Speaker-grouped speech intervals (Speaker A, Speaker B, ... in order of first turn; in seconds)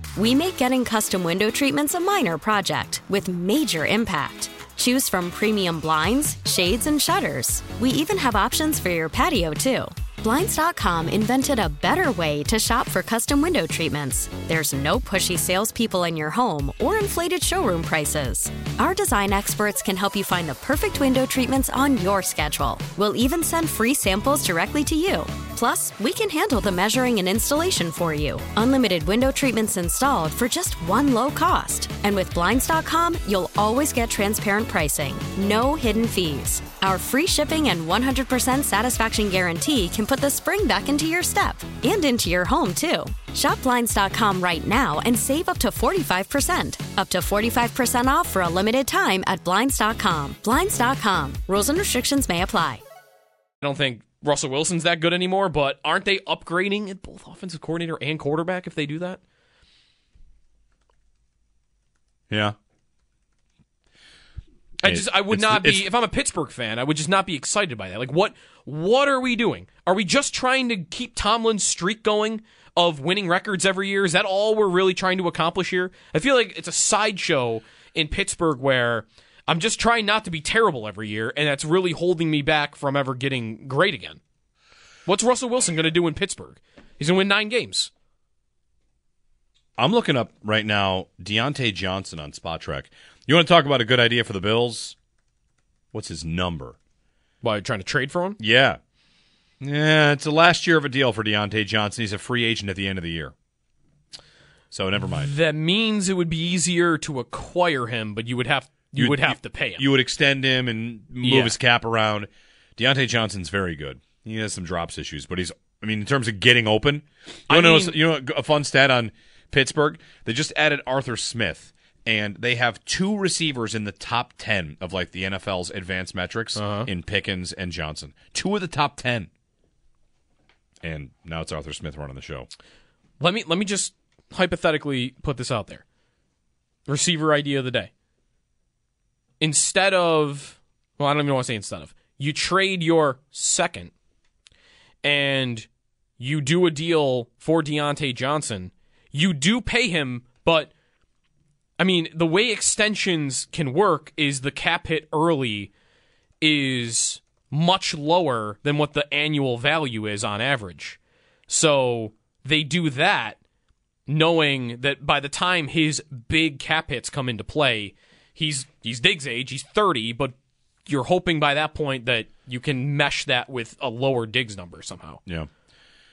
Speaker A: 0.1-52.8
Speaker B: 53.6-59.2, 64.8-84.2, 85.0-87.9, 97.4-98.4, 105.0-109.9, 111.2-111.6, 117.5-118.0, 126.5-126.9, 133.2-135.8, 136.9-137.9, 139.4-143.9, 145.0-145.7, 146.2-150.7, 151.8-155.7, 156.4-163.4, 164.1-170.3, 170.8-175.2
Speaker C: 62.3-62.5, 64.8-65.9, 89.8-95.0, 95.9-96.8, 98.4-98.8, 99.6-103.3, 104.7-105.3, 109.0-129.3, 130.8-132.5